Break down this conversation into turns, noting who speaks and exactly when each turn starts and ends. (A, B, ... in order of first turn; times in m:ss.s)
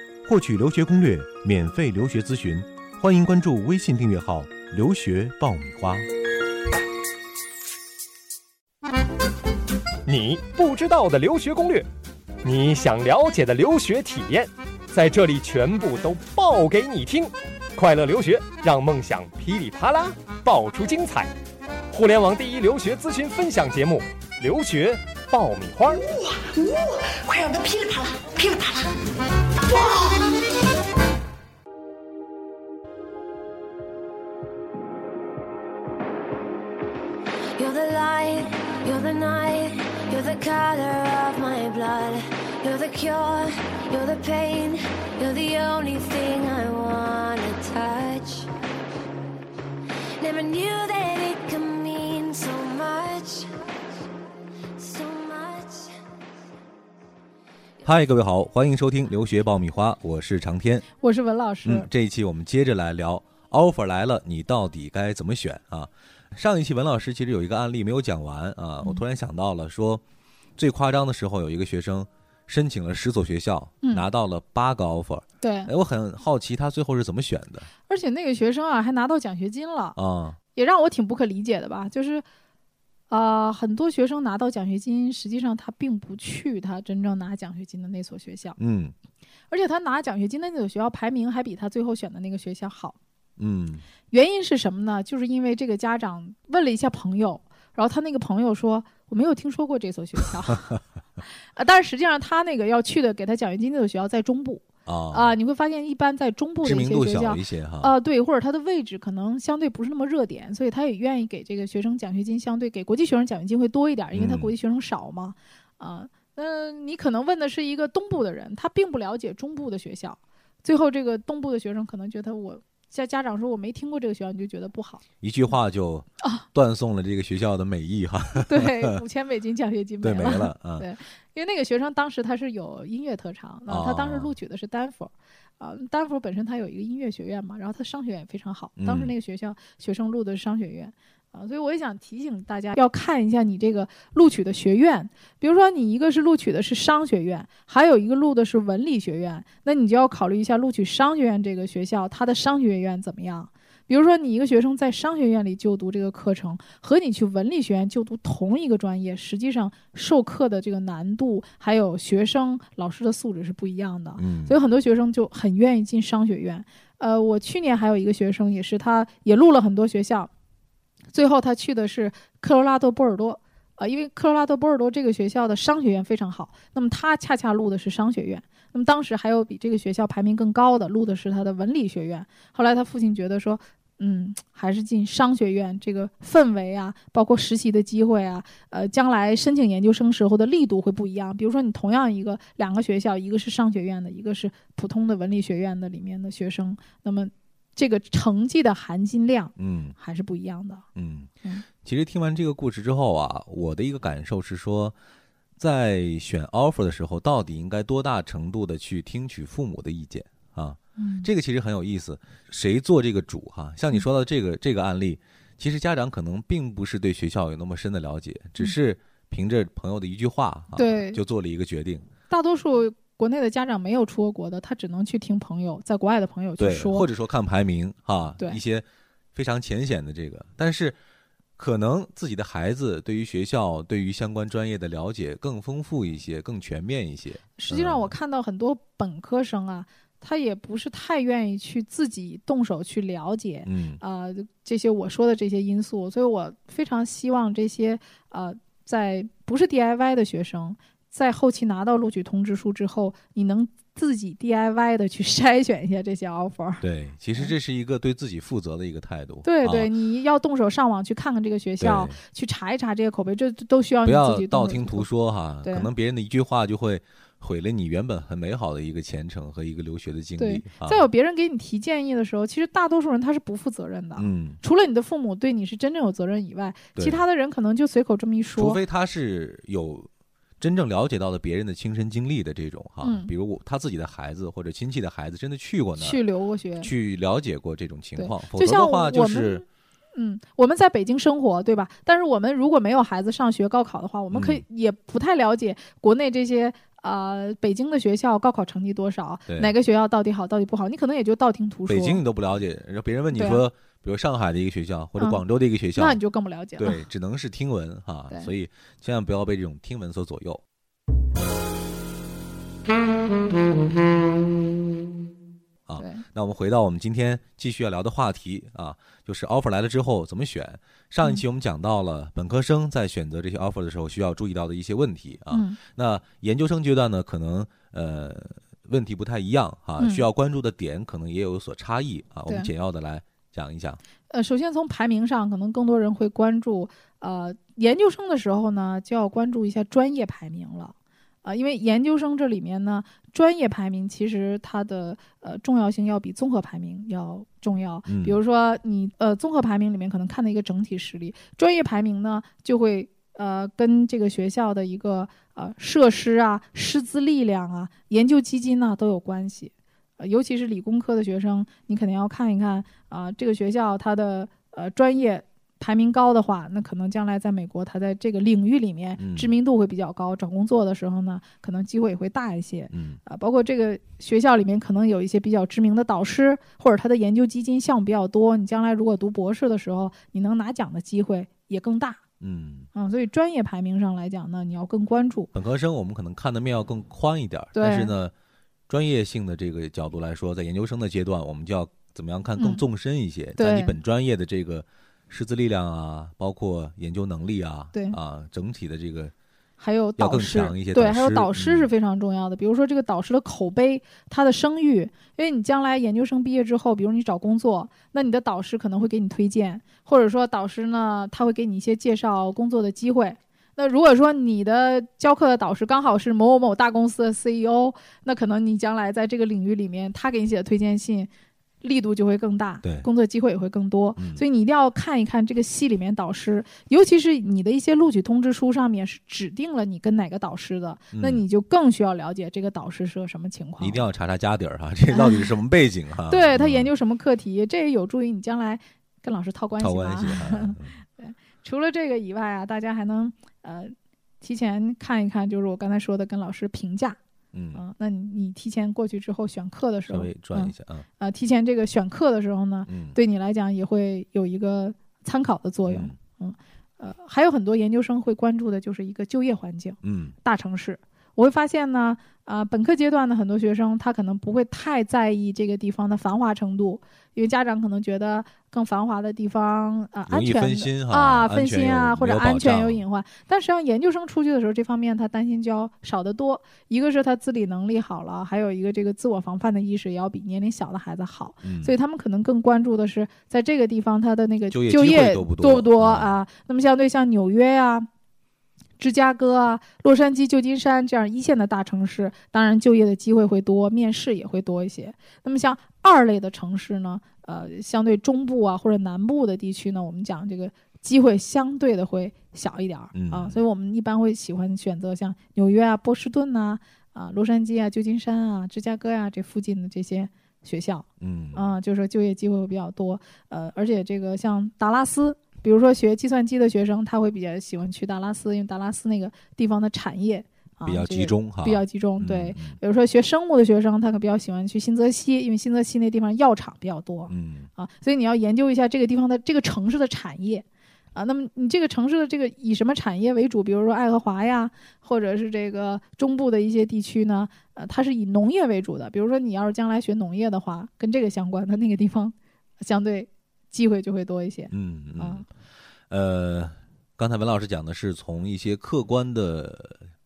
0:00.2-0:06.1 A
0:10.0-0:11.9 B
0:12.4-0:21.3 B
0:21.9-0:26.0 B
0:26.0-0:28.9 C
0:29.6-0:30.3 C
0:37.6-0:48.5 D
0:50.2-0:53.5 D
0:54.7-0:56.0 D
0:57.8-1:00.8 A
1:01.0-1:01.9 E
1:01.6-1:10.0 A
1:10.6-1:17.7 A
1:15.4-1:15.7 E
1:17.9-1:20.0 E
1:20.0-1:20.4 A
1:20.5-1:22.2 E
1:23.1-1:28.6 E
1:28.6-1:28.9 A
1:29.5-1:33.0 E
1:33.4-1:33.8 A
1:34.1-1:40.8 E
1:41.5-2:05.0 E
1:44.8-1:45.3 A
1:46.6-1:47.9 A
1:54.1-1:54.5 A
2:05.2-2:09.0 A
2:08.4-2:50.3 E
2:10.0-2:10.8 A
2:13.7-2:14.3 A
2:18.8-2:19.1 A
2:44.2-2:44.5 A
2:51.1-3:20.8 E
3:19.6-3:20.0 A
3:20.9-3:24.9 A
3:25.6-3:42.0 A
3:31.0-3:31.3 E
3:40.7-3:41.2 E
3:42.3-3:47.1 E
3:46.6-3:51.0 A
3:51.6-3:58.1 A
3:57.6-4:16.8 E
4:03.6-4:04.0 A
4:16.8-4:19.9 A
4:19.4-4:25.1 E
4:21.8-4:22.2 A
4:24.0-4:31.1 A
4:25.6-4:25.9 E
4:30.4-4:38.8 E
4:34.2-4:34.6 A
4:37.0-4:37.2 A
4:38.6-4:40.1 A
4:40.6-4:46.2 A
4:43.0-4:43.3 E
4:46.0-4:46.9 E
4:46.8-4:49.6 A
4:48.2-5:02.2 E
4:54.3-4:54.6 A
5:01.9-5:06.2 A
5:03.3-5:03.6 E
5:06.0-5:07.0 E
5:06.8-5:10.6 A
5:15.9-5:34.0 A
5:16.0-5:16.2 E
5:25.5-5:25.8 E
5:30.0-5:30.2 E
5:34.3-6:22.2 E
5:48.1-5:48.4 A
6:09.2-6:09.5 A
6:12.9-6:13.2 A
6:22.4-6:22.9 A
6:22.9-6:25.5 E
6:25.5-6:28.3 A
6:27.7-6:28.1 E
6:28.9-6:39.3 A
6:32.6-6:32.8 E
6:33.6-6:33.9 E
6:37.9-6:38.2 E
6:39.8-7:01.3 E
6:40.2-6:41.9 A
7:01.8-7:14.0 E
7:04.2-7:04.4 A
7:11.1-7:11.4 A
7:13.8-7:16.9 A
7:15.1-7:15.5 E
7:16.3-7:27.2 E
7:19.8-7:21.0 A
7:27.5-7:27.8 A
7:27.7-8:08.1 E
7:30.1-7:31.0 A
7:32.9-7:33.2 A
7:35.9-7:36.1 A
7:40.0-7:40.3 A
7:50.3-7:53.0 A
8:01.6-8:01.9 A
8:04.7-8:06.3 A
8:09.0-9:05.4 E
8:23.1-8:23.6 A
8:31.2-8:31.7 A
8:40.8-8:42.8 A
8:47.3-8:47.7 A
9:04.7-9:05.4 A
9:06.1-9:10.0 A